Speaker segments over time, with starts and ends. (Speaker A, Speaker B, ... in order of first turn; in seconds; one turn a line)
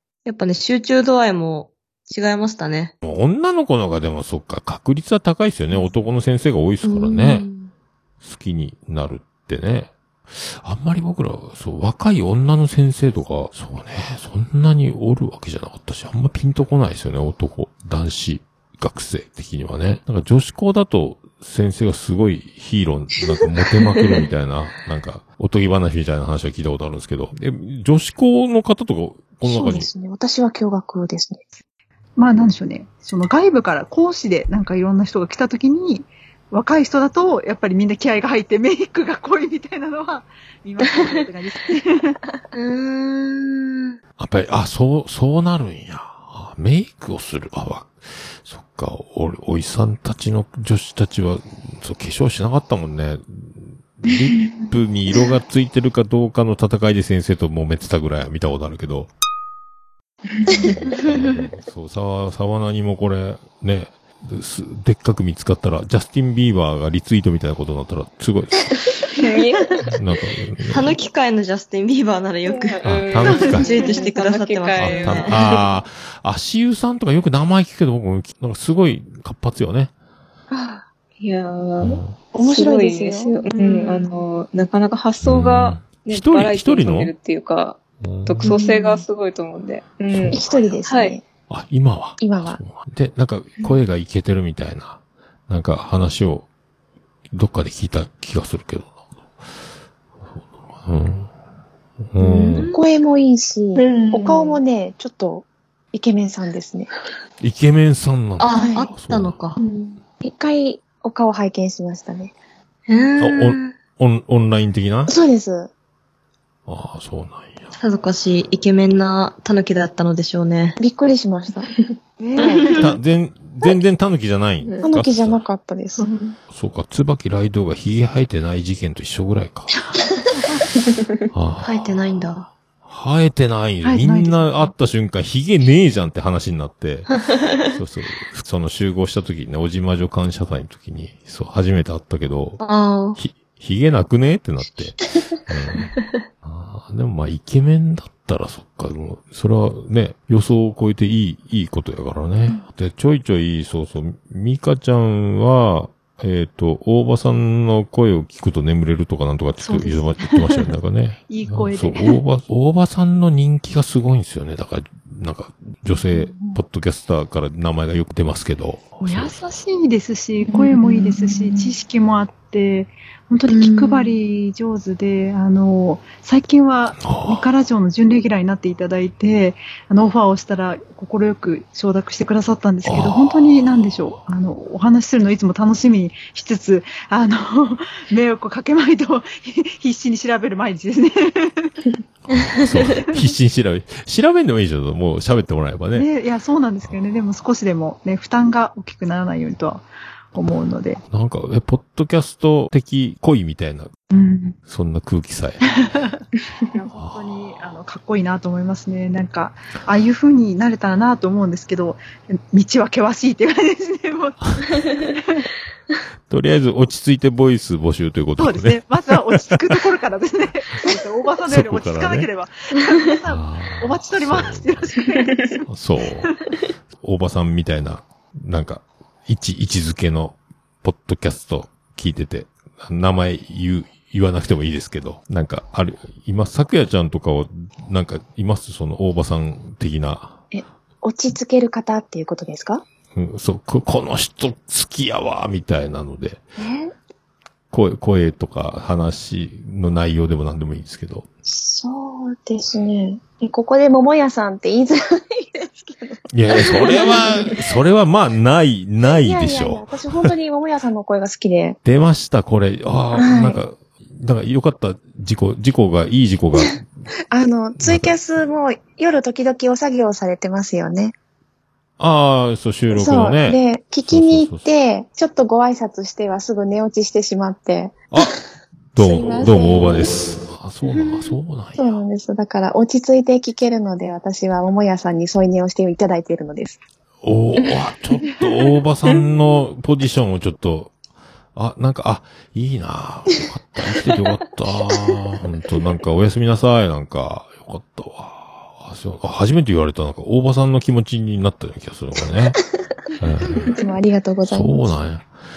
Speaker A: 0.2-2.9
Speaker B: 3.0-7.5
Speaker A: 6.8-7.7
Speaker B: 8.2-29.9
Speaker C: 29.4-31.5
Speaker D: 32.2-42.2
Speaker A: 42.5-43.9
Speaker B: 44.2-59.1
Speaker B: 60.5-68.7
Speaker E: 69.1-69.8
Speaker B: 69.9-71.0
Speaker A: 70.7-75.4
Speaker E: 72.5-75.6
Speaker B: 72.8-73.8
Speaker D: 73.4-74.1
Speaker B: 74.8-79.9
Speaker E: 81.2-91.2
Speaker B: 81.8-82.2
Speaker C: 82.3-83.5
Speaker D: 83.5-84.2
Speaker B: 85.2-87.1
Speaker B: 88.0-88.5
Speaker C: 88.5-89.0
Speaker B: 90.1-90.4
Speaker C: 90.3-91.2
Speaker B: 91.5-96.5
Speaker C: 92.2-92.6
Speaker B: 97.3-98.9
Speaker B: 100.8-101.3
Speaker B: 102.1-102.7
Speaker A: 102.2-102.8
Speaker C: 102.7-106.9
Speaker E: 103.8-104.6
Speaker B: 107.4-109.4
Speaker A: 108.4-109.6
Speaker C: 108.5-108.9
Speaker C: 110.2-112.3
Speaker A: 112.9-113.8
Speaker B: 113.2-115.1
Speaker C: 115.1-115.7
Speaker B: 116.7-117.7
Speaker A: 117.8-120.8
Speaker C: 120.8-121.7
Speaker D: 122.2-122.8
Speaker A: 122.4-122.9
Speaker B: 122.7-125.4
Speaker C: 124.8-126.1
Speaker E: 126.0-126.3
Speaker B: 126.5-129.7
Speaker D: 130.4-130.7
Speaker B: 131.3-132.3
Speaker A: 131.6-132.5
Speaker B: 132.8-142.6
Speaker D: 133.8-134.7
Speaker A: 137.1-137.8
Speaker A: 142.6-143.2
Speaker B: 143.2-169.4
Speaker D: 159.6-160.7
Speaker D: 161.3-162.2
Speaker D: 169.0-191.7
Speaker A: 173.5-174.1
Speaker B: 177.0-177.5
Speaker B: 182.8-184.2
Speaker B: 192.3-196.1
Speaker D: 195.9-201.0
Speaker B: 201.1-203.9
Speaker D: 204.1-204.6
Speaker B: 204.7-205.6
Speaker D: 205.8-206.2
Speaker D: 206.7-215.5
Speaker B: 207.0-207.7
Speaker B: 216.3-219.6
Speaker D: 218.4-225.6
Speaker B: 221.5-222.3
Speaker B: 223.3-224.9
Speaker B: 225.7-226.3
Speaker B: 227.0-240.4
Speaker C: 240.5-242.8
Speaker B: 243.2-246.4
Speaker C: 246.6-246.9
Speaker B: 247.7-251.3
Speaker C: 251.4-257.3
Speaker B: 256.3-260.3
Speaker C: 259.0-261.8
Speaker B: 261.8-266.9
Speaker C: 263.2-263.6
Speaker C: 267.3-271.1
Speaker B: 267.8-268.2
Speaker B: 272.0-274.7
Speaker C: 272.9-278.2
Speaker B: 278.9-282.0
Speaker C: 279.0-280.1
Speaker C: 281.8-286.8
Speaker B: 287.2-290.9
Speaker D: 288.2-288.7
Speaker B: 291.6-302.6
Speaker B: 303.2-303.8
Speaker C: 303.7-305.0
Speaker B: 304.5-305.3